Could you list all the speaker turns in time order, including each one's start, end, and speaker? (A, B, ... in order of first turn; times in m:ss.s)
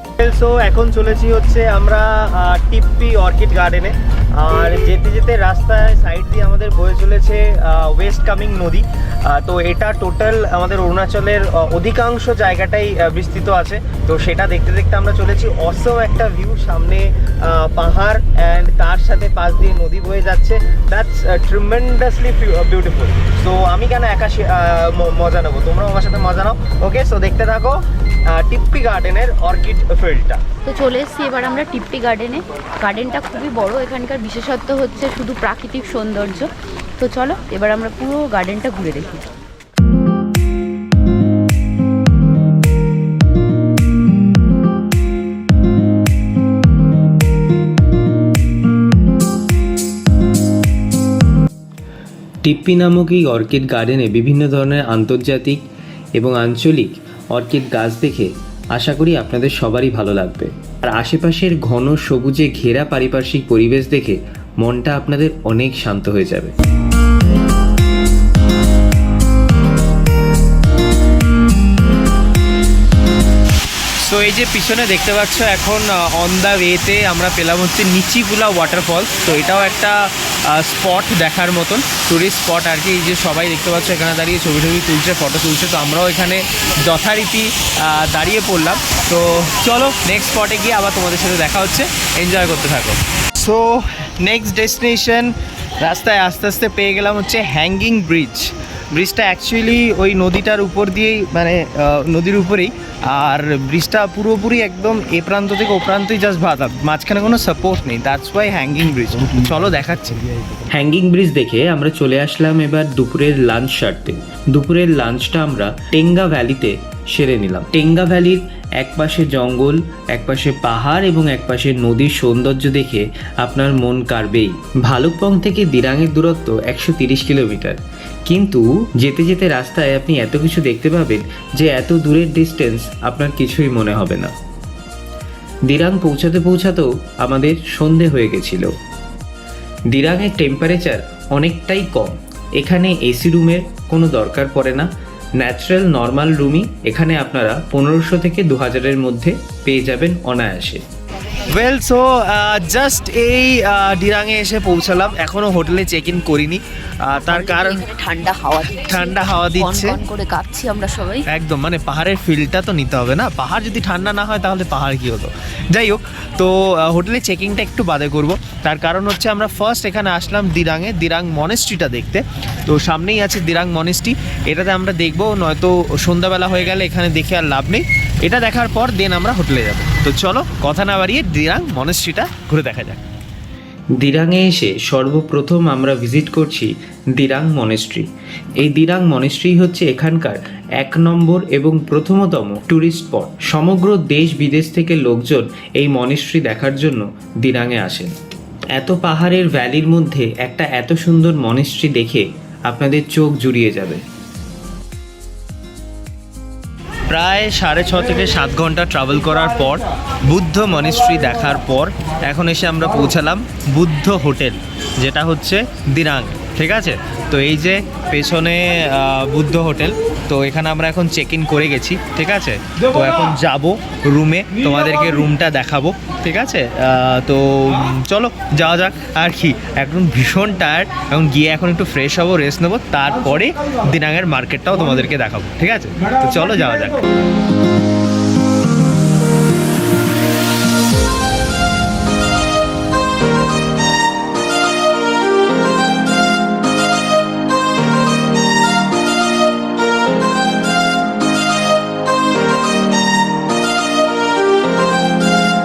0:00.2-0:30.4 A
0:30.6-0:39.2 B
0:52.4-0:55.6 C
0:56.2-1:06.5 C
1:14.0-1:50.2 A
1:50.7-2:14.3 C
2:15.7-2:18.7 C
2:19.9-2:24.9 C
2:25.4-2:30.8 C
2:31.5-2:37.8 A
2:37.2-2:41.2 B
2:38.8-2:40.0 A
2:41.3-3:03.0 A
3:04.0-3:08.1 C
3:08.6-3:18.1 C
3:18.7-3:24.0 C
3:27.1-3:57.0 A